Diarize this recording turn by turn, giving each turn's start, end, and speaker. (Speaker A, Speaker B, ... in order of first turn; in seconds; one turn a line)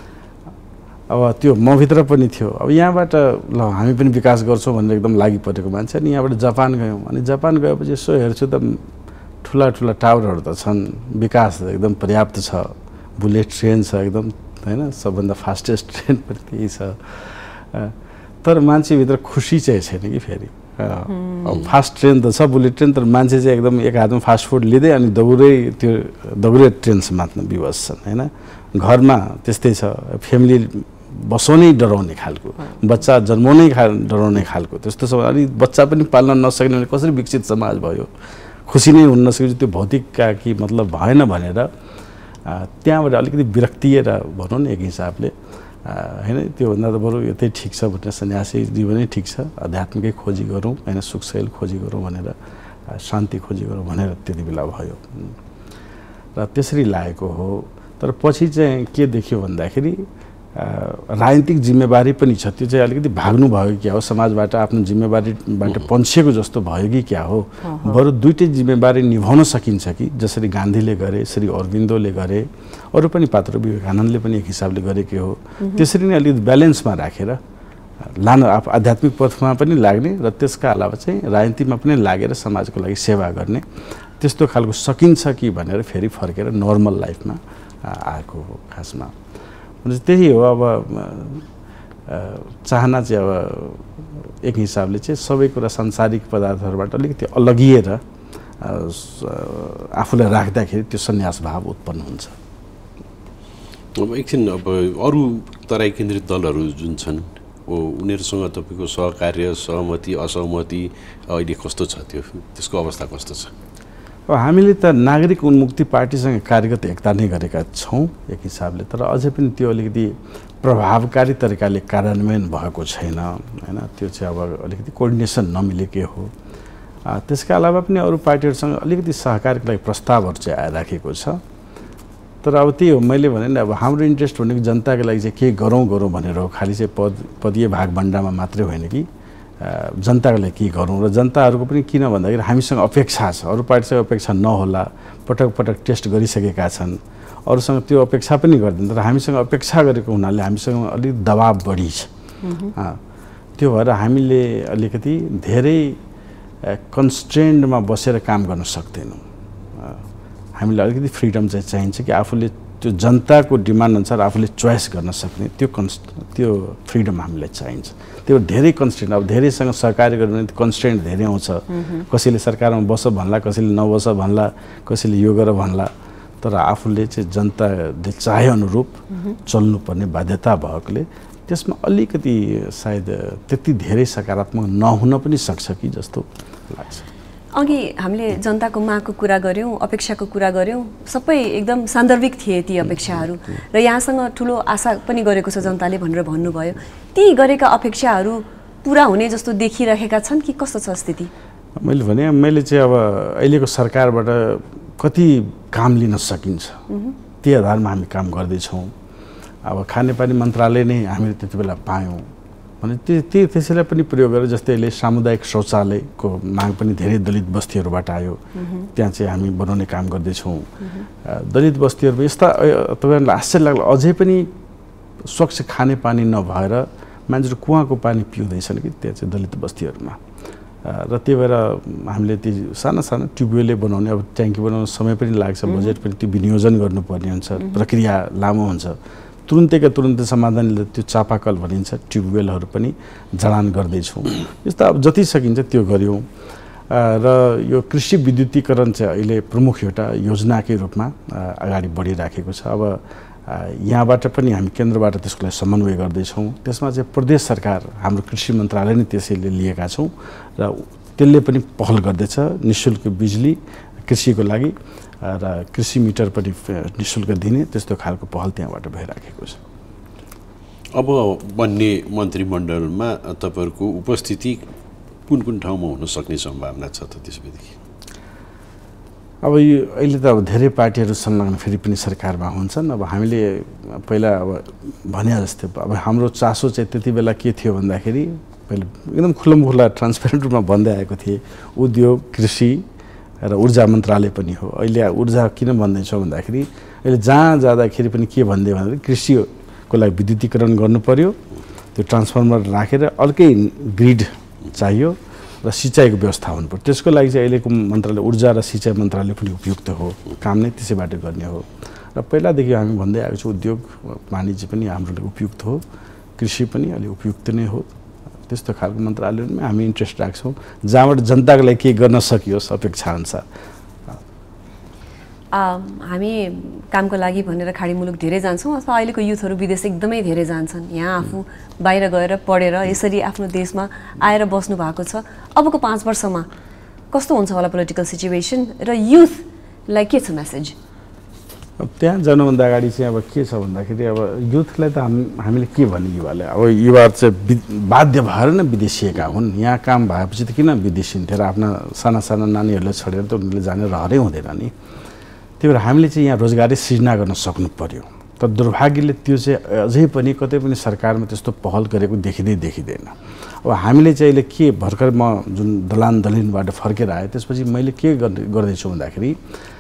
Speaker A: 1.1-8.8
Speaker A: 9.4-38.1
Speaker A: 38.7-41.7
Speaker A: 42.5-45.3
Speaker A: 45.9-52.4
Speaker A: 52.9-55.4
Speaker A: 56.4-77.4
Speaker B: 67.7-67.9
Speaker A: 78.2-83.6
Speaker A: 84.2-89.1
Speaker A: 89.8-91.5
Speaker A: 92.1-98.0
Speaker A: 98.6-102.3
Speaker C: 104.0-113.5
Speaker A: 114.3-126.3
Speaker A: 127.1-131.4
Speaker A: 132.4-139.1
Speaker A: 139.6-152.1
Speaker B: 152.4-152.7
Speaker A: 153.6-156.0
Speaker A: 156.7-159.2
Speaker A: 160.6-175.9
Speaker B: 171.7-172.0
Speaker A: 176.4-187.1
Speaker B: 187.6-201.3
Speaker A: 201.8-206.8
Speaker B: 206.9-207.2
Speaker A: 207.4-208.9
Speaker A: 209.7-212.3
Speaker A: 212.8-218.4
Speaker A: 218.9-220.7
Speaker A: 221.2-224.5
Speaker A: 225.3-230.2
Speaker A: 230.8-246.3
Speaker A: 246.9-269.6
Speaker C: 270.9-274.6
Speaker C: 275.3-277.8
Speaker A: 279.4-292.9
Speaker A: 293.4-301.4
Speaker A: 301.9-315.8
Speaker A: 316.4-317.9
Speaker A: 318.5-323.5
Speaker B: 325.5-336.5
Speaker B: 337.1-340.8
Speaker A: 341.8-354.7
Speaker A: 355.6-369.4